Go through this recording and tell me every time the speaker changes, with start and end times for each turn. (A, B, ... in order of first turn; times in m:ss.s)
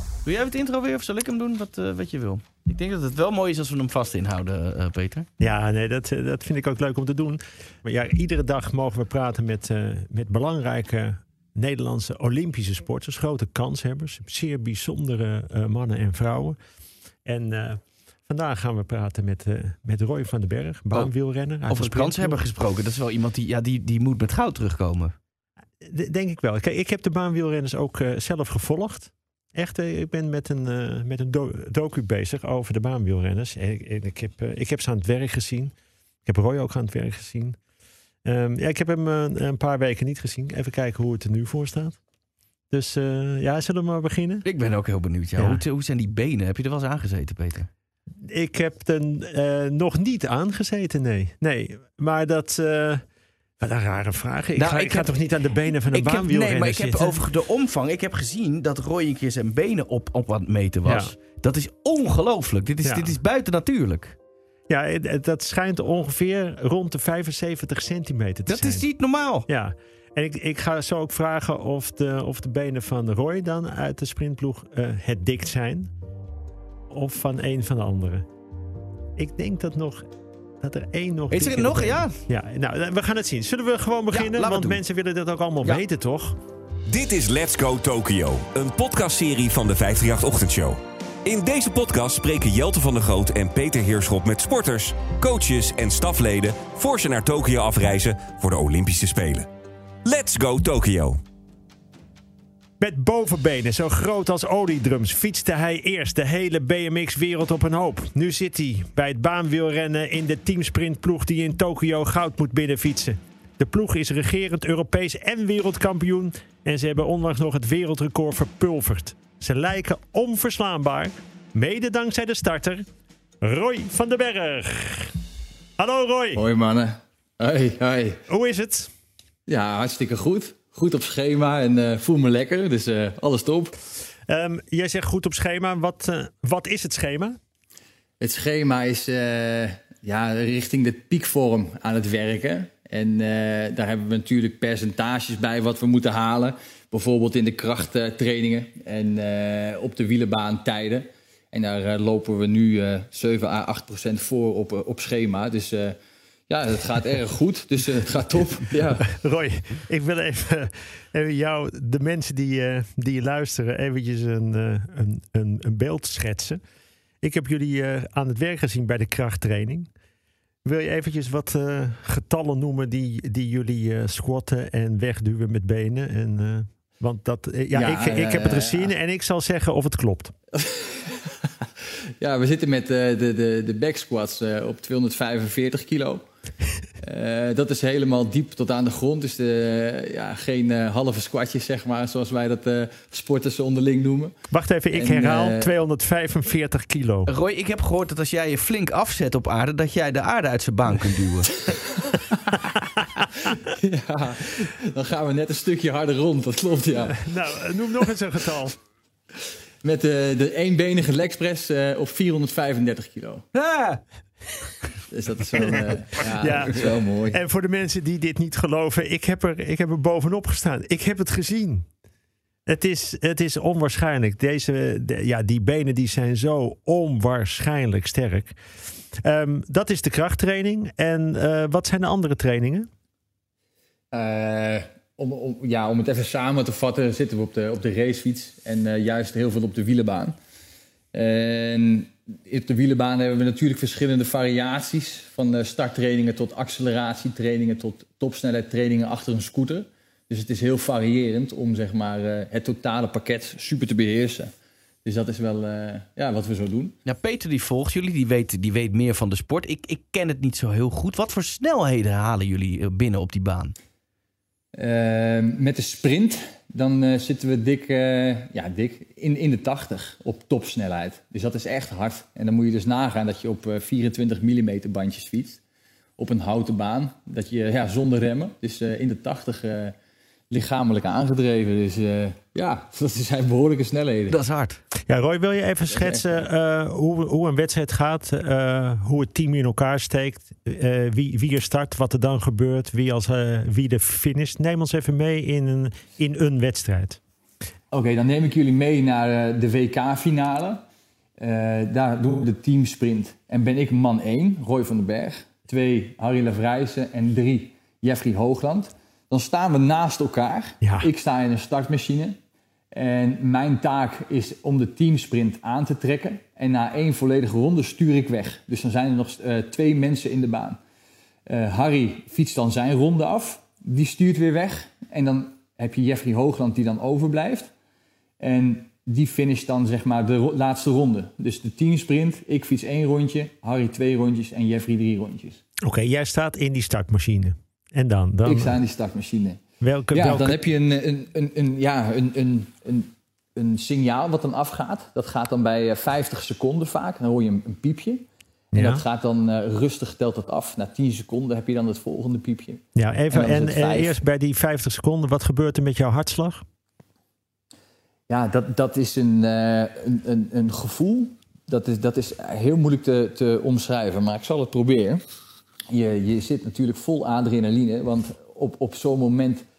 0:00.2-0:05.3 A
0:05.4-0:16.6 B
0:17.2-0:22.4 B
0:21.7-0:25.2 A
0:25.8-0:35.7 B
0:36.2-0:37.6 B
0:38.2-0:42.0 B
0:42.7-0:44.4 B
0:44.4-0:47.7 A
0:45.4-0:45.6 B
0:48.2-0:53.0 B
0:53.6-0:57.2 B
0:54.6-0:55.2 A
0:55.7-1:04.2 A
1:00.8-1:01.1 B
1:02.8-1:03.2 B
1:04.7-1:08.8 B
1:08.5-1:09.5 A
1:09.5-1:15.9 B
1:16.9-1:18.3 B
1:19.2-1:20.1 B
1:20.6-1:26.4 B
1:21.3-1:22.2 A
1:24.1-1:24.8 A
1:26.9-1:39.5 C
1:40.0-1:41.2 C
1:42.8-2:02.8 B
2:03.4-2:05.2 B
2:05.8-2:06.4 B
2:06.4-2:08.2 D
2:08.3-2:08.9 B
2:09.5-2:13.7 D
2:14.3-2:17.4 B
2:18.2-2:36.0 D
2:36.5-2:39.1 D
2:39.1-2:46.6 B
2:47.2-2:49.9 B
2:50.6-3:00.3 B
2:57.7-2:58.9 D
3:00.6-3:01.3 D
3:02.2-3:06.2 D
3:07.0-3:14.4 D
3:14.5-3:17.3 B
3:14.9-3:15.7 D
3:17.3-3:21.6 A
3:23.5-3:27.2 D
3:27.1-3:28.8 B
3:29.8-3:33.5 D
3:33.6-3:34.0 A
3:35.1-3:37.4 D
3:35.6-3:41.9 B
3:42.7-3:48.6 B
3:49.2-3:52.9 B
3:54.1-4:00.4 D
4:01.1-4:14.5 D
4:15.0-4:17.0 D
4:17.1-4:23.7 A
4:24.7-4:35.6 D
4:36.2-4:40.0 D
4:40.5-4:44.4 D
4:44.3-4:44.8 A
4:45.1-4:57.2 B
4:45.9-4:46.3 D
4:57.9-5:00.8 D
5:01.4-5:12.4 D
5:10.8-5:11.1 B
5:12.9-5:20.8 D
5:21.5-5:27.7 D
5:28.4-5:35.6 D
5:35.8-5:38.8 B
5:38.4-5:54.2 D
5:39.8-5:40.6 B
5:48.7-5:49.0 B
5:53.0-5:56.6 B
5:58.3-6:05.2 D
6:05.9-6:09.6 D